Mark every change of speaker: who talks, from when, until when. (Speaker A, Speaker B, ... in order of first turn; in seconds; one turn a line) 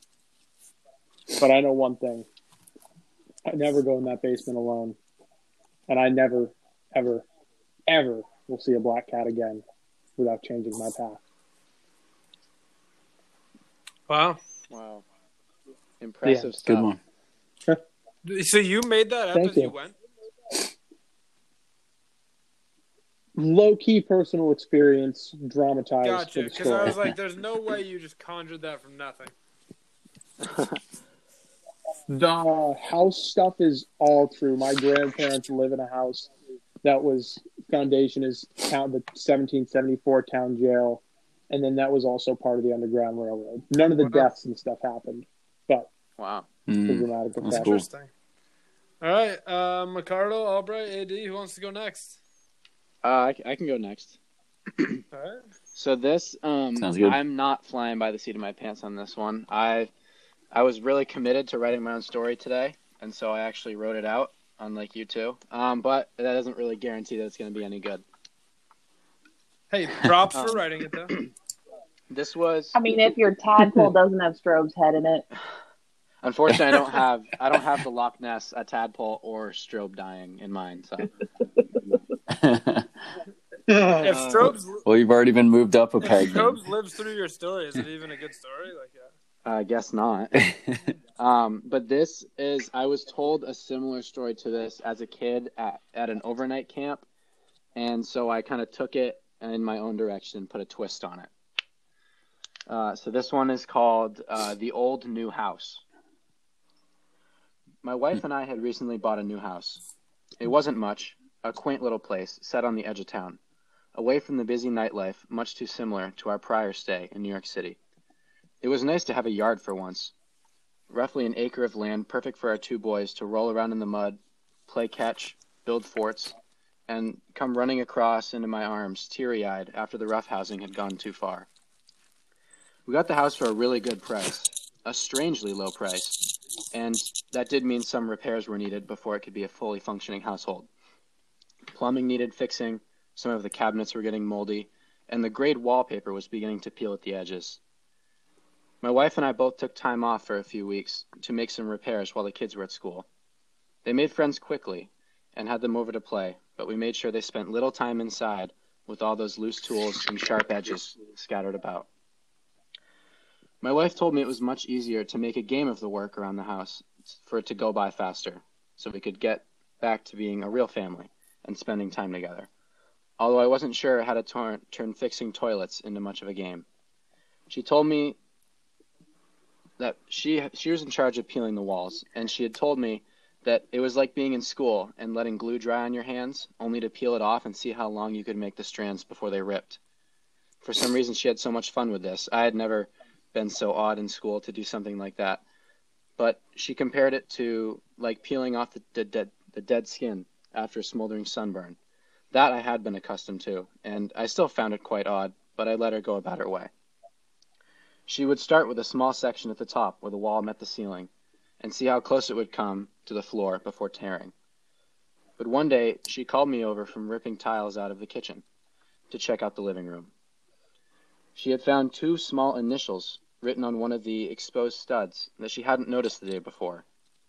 Speaker A: 1.4-2.3
Speaker A: 3.5-5.0
Speaker A: 5.9-7.3
Speaker A: 7.9-9.6
Speaker A: 10.2-11.2
Speaker B: 14.1-14.4
Speaker C: 14.7-15.0
Speaker C: 16.0-16.9
Speaker A: 16.2-16.5
Speaker D: 16.6-17.0
Speaker B: 18.2-20.0
Speaker A: 19.3-19.7
Speaker A: 23.4-27.0
Speaker B: 26.0-29.3
Speaker A: 32.1-36.3
Speaker A: 36.8-45.9
Speaker B: 44.0-44.3
Speaker C: 46.2-46.5
Speaker D: 46.7-47.9
Speaker A: 46.9-47.8
Speaker B: 47.5-48.1
Speaker B: 49.0-52.2
Speaker C: 53.0-54.2
Speaker C: 54.8-55.0
Speaker B: 55.1-55.4
Speaker C: 55.8-59.9
Speaker D: 56.8-57.2
Speaker C: 60.5-68.0
Speaker B: 69.7-71.1
Speaker C: 72.1-72.8
Speaker E: 72.7-75.2
Speaker C: 76.2-81.1
Speaker D: 82.3-82.9
Speaker A: 83.7-84.0
Speaker B: 84.0-84.8
Speaker D: 84.4-86.6
Speaker B: 86.0-89.1
Speaker C: 89.5-90.5
Speaker D: 90.5-90.8
Speaker C: 91.2-97.0
Speaker C: 97.8-101.3
Speaker C: 102.7-105.8
Speaker C: 107.8-109.8
Speaker C: 110.4-113.4
Speaker C: 114.0-117.8
Speaker C: 118.6-120.1
Speaker C: 120.9-126.3
Speaker C: 126.9-131.5
Speaker C: 132.9-136.2
Speaker C: 136.7-140.7
Speaker C: 141.7-147.6
Speaker C: 148.8-153.1
Speaker C: 153.8-161.9
Speaker C: 163.6-172.5
Speaker C: 173.2-176.7
Speaker C: 177.5-178.2
Speaker C: 179.8-189.8
Speaker C: 190.6-195.4
Speaker C: 196.2-201.8
Speaker C: 202.3-206.7
Speaker C: 208.1-214.3
Speaker C: 215.4-218.4
Speaker C: 219.1-220.1
Speaker C: 221.3-226.8